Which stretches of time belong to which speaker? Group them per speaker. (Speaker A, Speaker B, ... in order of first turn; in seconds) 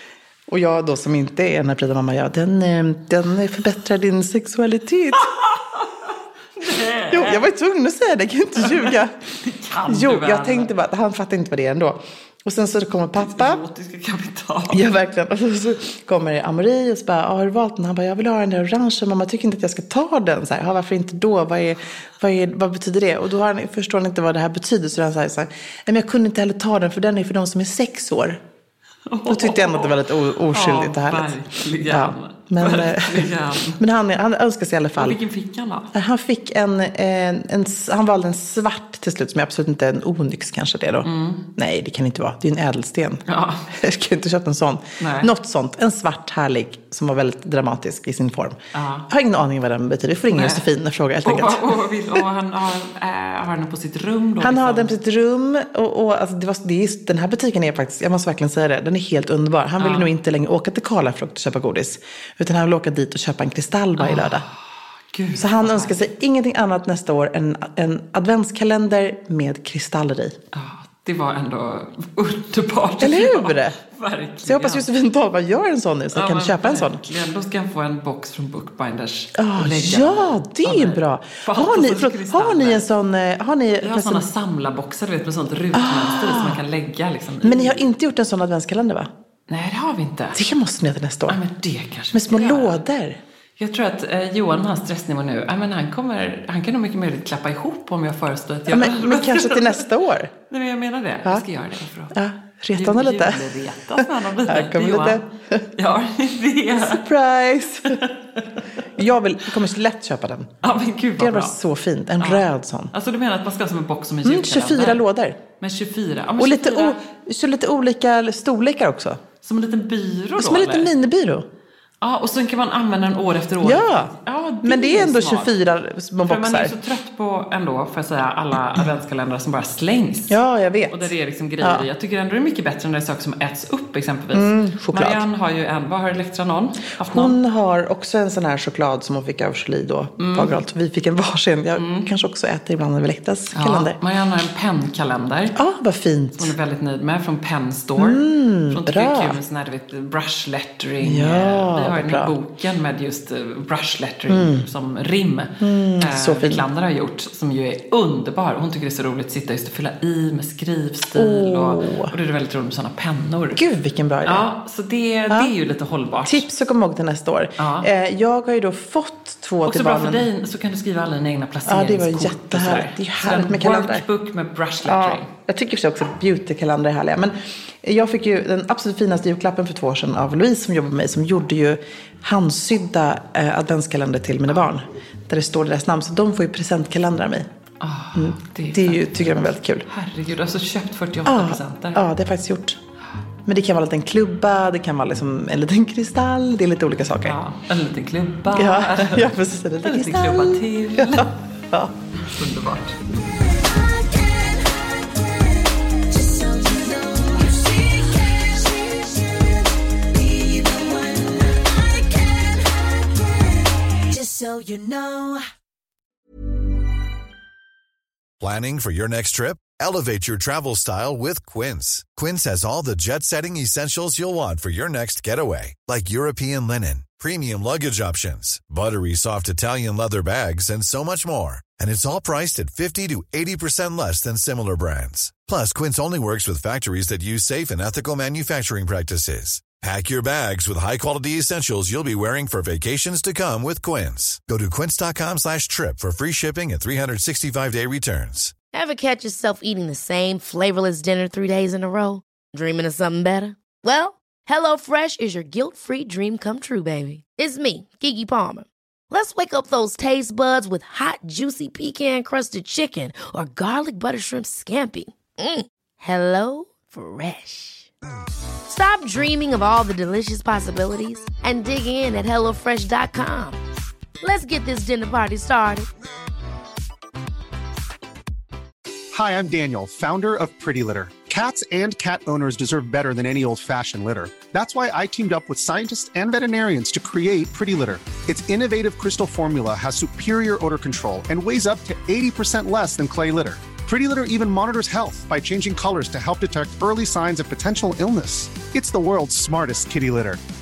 Speaker A: 0.5-5.3, 7.1-9.1, 9.8-13.6, 14.7-28.4, 29.3-31.3, 31.9-35.2, 35.9-48.6, 49.1-52.2, 54.4-64.4, 65.3-70.4, 73.0-73.8, 74.4-77.0, 79.3-84.2, 85.7-86.6, 87.4-89.1, 90.3-91.4, 92.1-93.2, 98.7-100.3, 102.1-103.6, 104.5-105.7, 106.8-108.0, 109.0-110.5, 111.2-112.9, 114.2-115.4, 116.4-119.2, 120.4-121.5, 123.6-126.7, 130.3-131.9, 134.3-135.2, 137.0-144.0, 145.6-146.5, 148.0-149.4, 151.0-152.3, 154.3-154.6, 155.6-156.6, 161.1-162.1, 163.5-164.4, 166.2-170.3, 171.7-174.1, 174.8-187.5, 188.1-189.9, 191.2-192.8, 193.4-197.4, 198.5-201.9
Speaker B: 5.2-7.5, 8.6-10.7, 13.2-14.8, 29.1-29.9, 30.5-33.8, 35.0-35.9, 41.0-41.4, 43.3-43.6, 45.0-45.3, 48.7-49.1, 50.3-50.7, 51.2-54.9, 59.8-60.1, 64.0-64.5, 65.1-66.0, 70.5-74.9, 76.1-82.8, 83.8-87.8, 89.5-90.4, 91.3-92.8, 93.6-99.8, 100.5-102.1, 102.8-105.2, 105.8-107.0, 107.9-108.6, 110.6-111.5, 112.2-115.0, 115.6-117.0, 119.4-120.9, 122.0-125.5, 126.2-130.4, 130.9-137.4, 140.2-140.5, 141.8-142.1, 143.5-145.6, 146.4-163.6, 164.2-166.4, 167.6-167.9, 169.6-175.3, 187.8-189.1, 189.9-192.0, 197.2-201.3, 202.2-203.0
Speaker C: 203.3-215.4
Speaker D: 218.4-248.5
Speaker E: 248.7-267.9, 268.7-273.6, 274.2-275.9
Speaker F: 279.1-300.4